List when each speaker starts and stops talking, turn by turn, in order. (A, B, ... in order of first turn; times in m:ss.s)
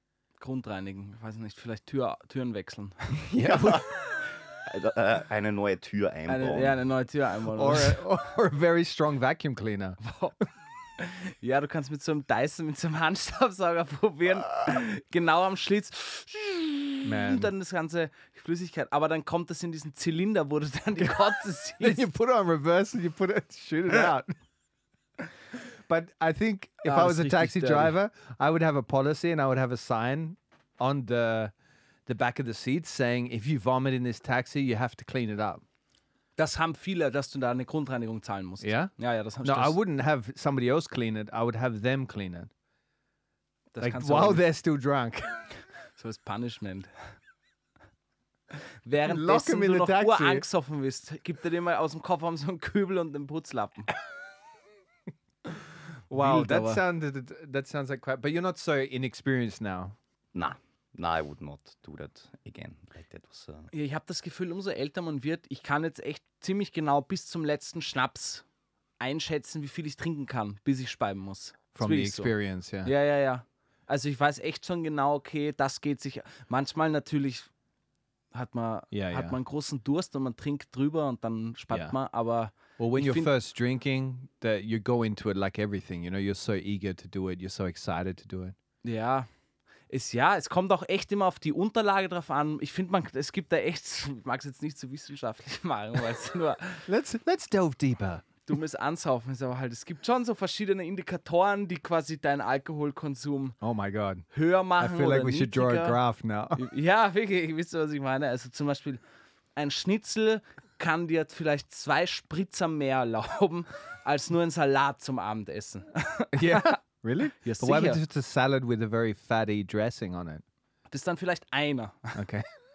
0:00.4-0:03.1 A
0:03.2-0:06.8 B
0:03.3-0:03.9 C
0:06.3-0:08.0 A
0:07.5-0:10.0 C
0:10.0-0:10.3 A
0:11.0-0:22.0 A
0:17.0-0:17.5 C
0:21.8-0:24.3 C
0:25.5-0:31.5 C
0:26.8-0:28.0 A
0:32.0-0:35.6 C
0:36.4-0:39.8 A
0:38.6-0:42.5 C
0:43.7-0:44.5 A
0:43.8-0:45.5 C
0:46.0-0:47.1 A
0:48.8-0:53.9 A
0:49.0-0:50.4 C
0:56.1-1:00.0 C
0:56.1-0:56.8 A
1:00.3-1:03.7 B
1:03.7-1:08.4 A
1:09.0-1:17.5 A
1:11.7-1:12.9 C
1:18.3-1:23.3 A
1:18.9-1:19.4 C
1:22.8-1:28.6 C
1:28.8-1:29.3 A
1:29.9-1:36.8 A
1:36.8-1:38.3 C
1:38.4-1:43.6 A
1:43.6-1:44.2 C
1:44.3-1:46.0 A
1:44.8-1:46.7 C
1:46.6-1:49.0 A
1:49.6-1:56.8 A
1:56.3-2:00.4 C
1:57.4-1:58.0 A
2:00.9-2:02.2 A
2:02.1-2:02.4 C